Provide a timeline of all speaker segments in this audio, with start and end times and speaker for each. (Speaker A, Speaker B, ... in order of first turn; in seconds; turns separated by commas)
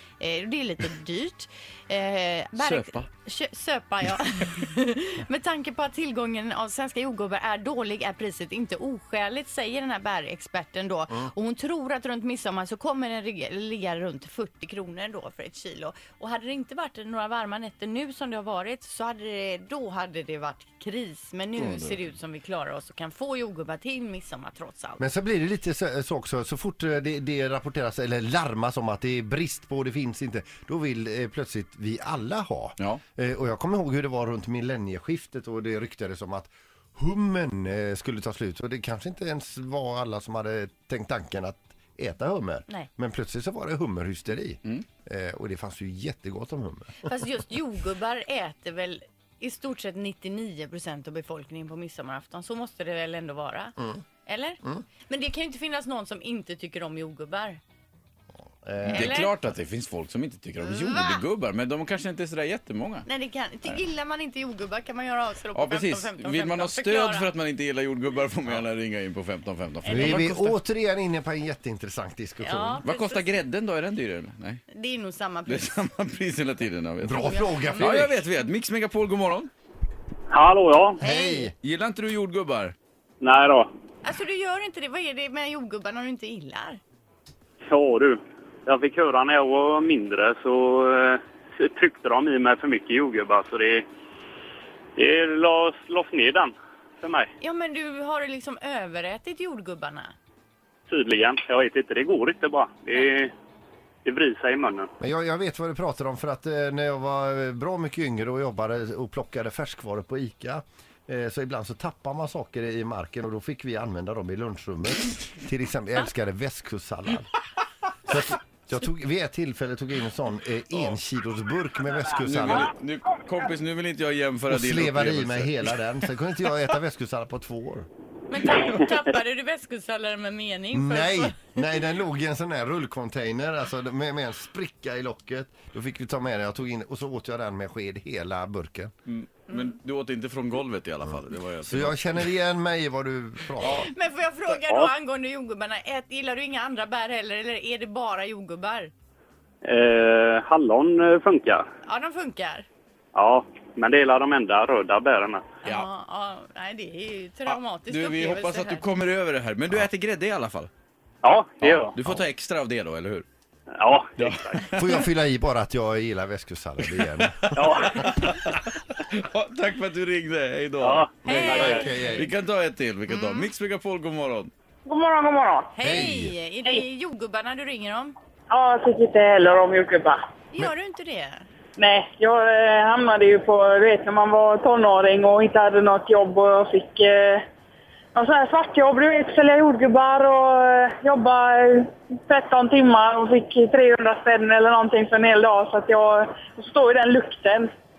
Speaker A: 0.2-25.0, Speaker B: 2.6-3.0, Speaker C: 21.6-21.9, Speaker C: 25.0-47.1, Speaker A: 47.0-57.6, Speaker C: 58.6-59.1, Speaker B: 58.9-63.0, Speaker A: 58.9-59.3, Speaker A: 60.6-61.2, Speaker A: 63.1-67.3, Speaker B: 65.5-70.6, Speaker A: 69.8-70.4, Speaker C: 69.9-72.8, Speaker A: 72.4-73.3, Speaker B: 72.8-74.6, Speaker A: 74.7-75.8, Speaker B: 75.5-79.5, Speaker C: 77.0-78.2, Speaker A: 77.1-78.0, Speaker D: 80.3-81.0, Speaker A: 81.0-81.5, Speaker C: 81.0-81.5, Speaker B: 81.6-82.8, Speaker D: 83.2-83.7, Speaker A: 84.0-86.8, Speaker D: 87.7-93.9, Speaker D: 95.0-97.3, Speaker A: 97.4-100.1, Speaker D: 100.9-103.3, Speaker D: 104.1-104.9, Speaker C: 105.0-117.3, Speaker C: 118.1-122.7, Speaker B: 122.2-125.8, Speaker C: 124.5-127.9, Speaker A: 128.3-131.5, Speaker C: 130.7-138.9, Speaker B: 139.1-142.2, Speaker C: 141.7-143.9, Speaker A: 143.7-148.9, Speaker D: 149.6-151.6, Speaker A: 151.8-152.7, Speaker D: 153.2-155.5, Speaker A: 155.6-158.8, Speaker B: 157.5-160.7, Speaker D: 161.2-161.9, Speaker B: 161.6-163.2, Speaker D: 163.8-164.8, Speaker B: 164.2-164.6, Speaker C: 164.7-168.1, Speaker D: 167.5-168.0, Speaker B: 167.9-171.5, Speaker D: 170.8-171.9, Speaker A: 171.2-172.1, Speaker C: 171.2-172.3, Speaker B: 172.2-174.5, Speaker A: 173.1-173.5, Speaker E: 174.8-175.8, Speaker A: 175.8-178.2, Speaker C: 175.8-176.3, Speaker E: 178.5-180.2, Speaker A: 180.5-181.5, Speaker E: 181.8-187.4, Speaker E: 188.2-197.7